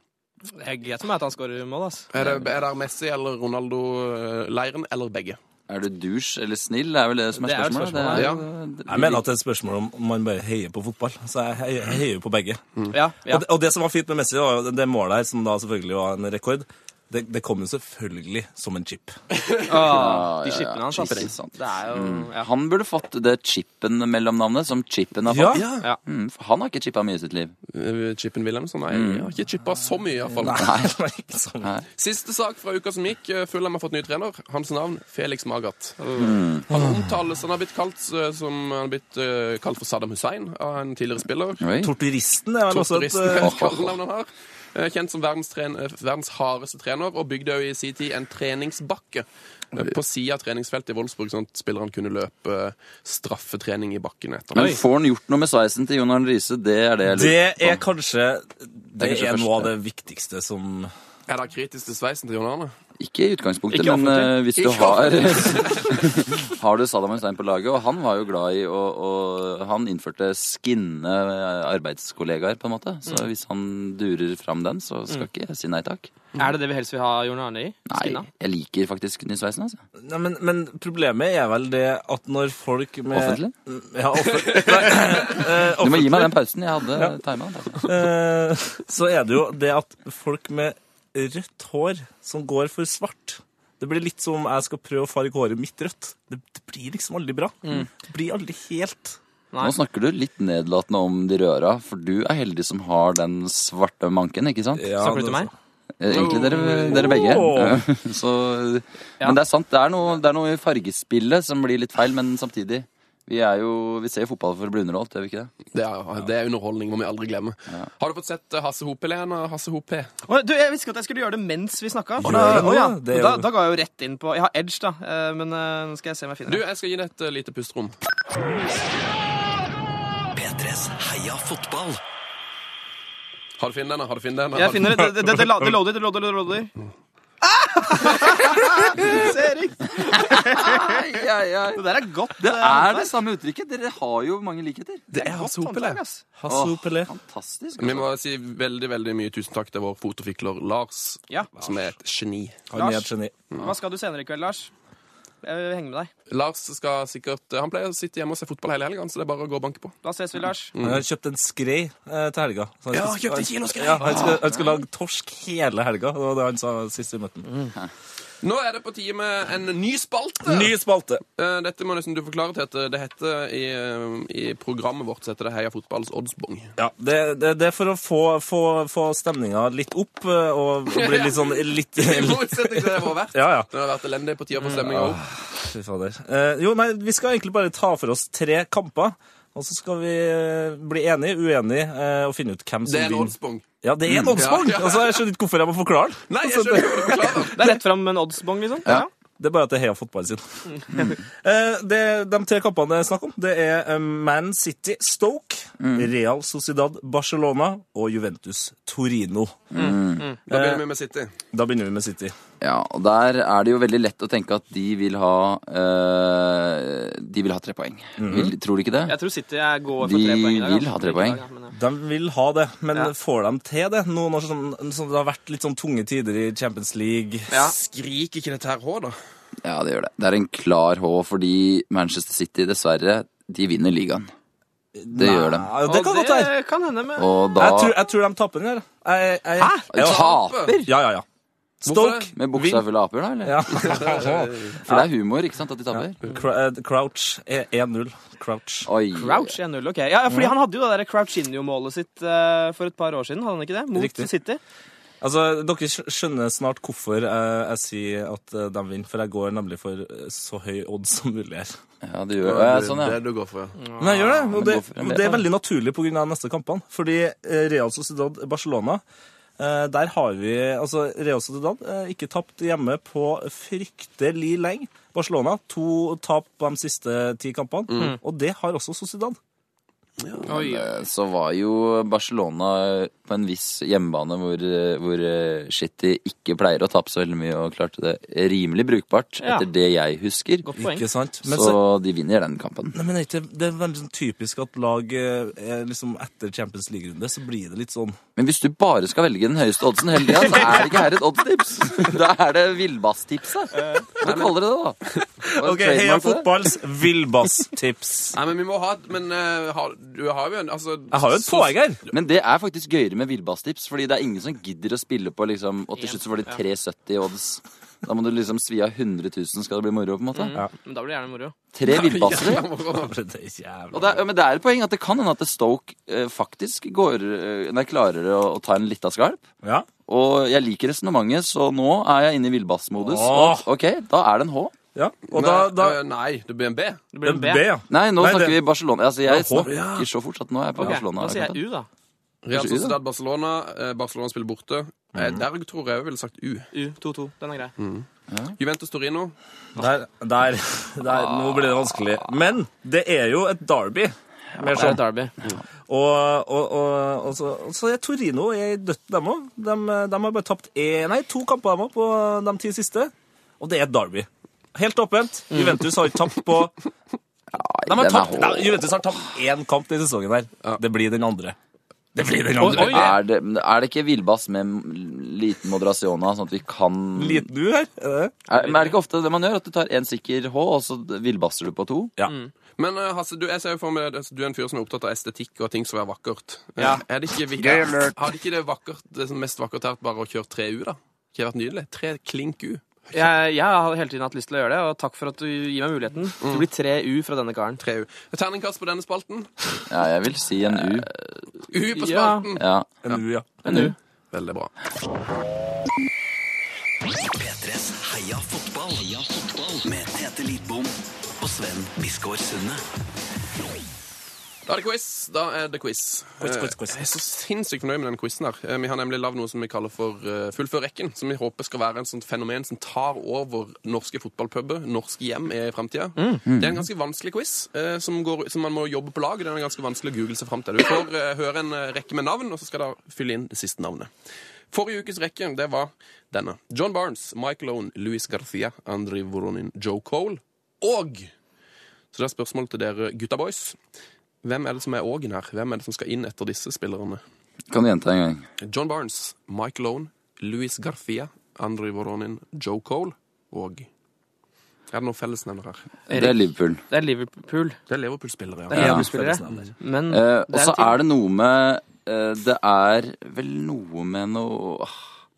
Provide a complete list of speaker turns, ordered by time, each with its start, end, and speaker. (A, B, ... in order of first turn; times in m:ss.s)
0:00.5-0:02.0 A
0:02.1-0:05.4 B
0:02.1-0:02.5 C
0:05.7-0:09.2 C
0:07.4-0:08.3 A
0:08.1-0:08.4 B
0:08.9-0:12.6 D
0:12.9-0:13.4 A
0:13.3-0:19.2 D
0:19.7-0:22.5 A
0:19.7-0:27.5 C
0:25.3-0:25.7 D
0:25.5-0:25.8 B
0:27.7-0:30.6 B
0:28.9-0:29.3 C
0:30.4-0:31.7 D
0:30.5-0:30.9 C
0:32.0-0:36.0 B
0:36.0-0:36.3 A
0:36.2-0:36.7 C
0:36.7-0:41.6 B
0:36.7-0:37.0 D
0:41.6-0:41.9 C
0:41.8-0:43.5 D
0:42.7-0:54.8 B
0:43.3-0:44.0 C
0:54.5-0:57.8 C
0:57.1-1:00.9 D
0:59.0-0:59.7 C
1:01.3-1:02.7 B
1:03.0-1:16.1 C
1:03.7-1:04.4 A
1:04.6-1:06.0 B
1:16.4-1:18.3 A
1:17.9-1:19.8 C
1:20.0-1:26.3 D
1:23.1-1:23.5 C
1:25.7-1:27.9 C
1:27.7-1:39.2 D
1:39.6-1:44.9 C
1:44.8-1:45.5 D
1:45.0-1:45.5 A
1:46.0-1:55.5 C
1:46.1-1:47.2 B
1:46.4-1:47.8 D
1:55.7-2:00.1 B
2:00.3-2:06.6 A
2:02.2-2:03.5 D
2:06.5-2:08.0 B
2:10.3-2:12.0 E
2:13.6-2:15.1 B
2:14.5-2:16.7 A
2:15.0-2:15.8 D
2:17.4-2:21.1 A
2:20.0-2:25.0 C
2:21.7-2:23.1 A
2:25.1-2:26.0 B
2:25.1-2:26.2 A
2:26.4-2:27.1 D
2:26.5-2:28.0 C
2:27.8-2:32.6 B
2:32.7-2:33.3 D
2:32.7-2:34.7 A
2:35.4-2:36.1 A
2:36.3-2:40.0 B
2:40.0-2:40.7 A
2:40.7-2:41.0 B
2:40.8-2:47.5 D
2:42.9-2:44.4 B
2:44.0-2:44.7 C
2:48.4-2:50.7 B
2:50.4-2:51.2 D
2:51.4-2:56.7 B
2:56.8-3:03.7 D
3:00.9-3:05.2 B
3:04.7-3:17.7 D
3:12.8-3:13.6 B
3:14.0-3:14.4 C
3:14.3-3:15.2 B
3:16.3-3:17.7 B
3:17.5-3:19.1 A
3:19.4-3:20.4 D
3:21.2-3:29.6 D
3:25.8-3:26.1 C
3:29.7-3:30.3 C
3:29.7-3:30.4 A
3:30.4-3:31.3 B
3:30.5-3:30.8 D
3:31.5-3:32.3 D
3:32.6-3:39.1 C
3:38.2-3:38.5 D
3:39.1-3:41.7 A
3:40.0-3:41.4 C
3:41.7-3:47.5 D
3:47.6-3:49.2 B
3:49.6-3:54.3 C
3:55.0-3:56.5 D
3:55.1-3:55.7 C
3:55.8-3:57.3 A
3:57.2-3:58.0 C
3:57.6-4:01.2 D
3:59.6-3:59.9 A
3:59.9-4:00.9 C
4:00.0-4:00.8 B
4:01.8-4:02.8 D
4:01.8-4:02.3 B
4:02.4-4:04.2 C
4:03.4-4:05.1 D
4:03.7-4:04.8 B
4:04.8-4:06.2 C
4:05.9-4:08.9 D
4:08.8-4:09.6 C
4:09.1-4:14.6 A
4:13.9-4:14.3 D
4:15.2-4:21.7 D
4:22.0-4:23.2 C
4:22.4-4:23.8 B
4:23.8-4:24.4 A
4:24.0-4:29.0 D
4:24.2-4:25.4 C
4:29.6-4:39.4 D
4:37.9-4:38.1 B
4:40.2-4:40.5 B
4:40.4-4:50.6 C
4:40.5-4:40.9 A
4:49.4-4:49.7 A
4:50.6-4:51.0 A
4:50.8-4:51.8 D
4:51.4-4:53.0 C
4:52.9-4:58.2 D
4:58.4-5:06.7 C
5:04.2-5:04.6 B
5:05.4-5:08.4 D
5:08.3-5:11.8 B
5:11.1-5:12.0 D
5:12.1-5:20.6 C
5:16.0-5:16.6 A
5:20.3-5:21.5 A
5:21.7-5:22.7 C
5:21.8-5:23.1 B
5:22.0-5:24.2 D
5:23.9-5:29.4 C
5:30.1-5:34.7 C
5:33.0-5:33.7 D
5:34.9-5:36.0 D
5:35.3-5:37.0 B
5:37.1-5:37.6 A
5:37.2-5:38.6 D
5:37.9-5:41.6 C
5:39.2-5:40.1 D
5:40.8-5:41.9 A
5:42.4-5:46.7 B
5:42.5-5:43.0 C
5:46.7-5:47.7 A
5:47.8-5:49.3 B
5:48.3-5:48.5 C
5:49.8-5:55.0 D
5:51.1-5:52.0 C
5:54.6-5:55.3 A
5:55.9-6:06.8 D
6:05.5-6:05.8 A
6:07.5-6:08.9 C
6:07.8-6:11.6 D
6:12.1-6:13.2 D
6:12.6-6:13.1 A
6:12.6-6:17.5 C
6:17.2-6:18.3 D
6:18.5-6:22.1 C
6:22.8-6:33.3 B
6:27.6-6:28.2 D
6:33.1-6:37.8 A
6:36.4-6:36.7 B
6:37.8-6:39.5 B
6:39.9-6:41.4 C
6:41.7-6:43.2 B
6:41.9-6:42.5 A
6:42.5-6:42.9 C
6:43.0-6:43.9 D
6:43.6-6:43.9 C
6:44.3-6:44.7 B
6:47.1-6:52.8 E
6:54.6-7:14.1 B
6:56.4-6:57.1 D
7:06.5-7:06.8 C
7:14.7-7:21.3 B
7:22.1-7:23.8 B
7:24.4-7:27.2 B
7:27.7-7:28.5 C
7:28.6-7:33.9 B
7:34.9-7:35.8 B
7:36.1-7:37.8 A
7:36.1-7:36.8 C
7:37.9-7:38.9 B
7:38.7-7:41.0 A
7:38.7-7:39.7 D
7:38.7-7:39.1 C
7:40.1-7:45.0 C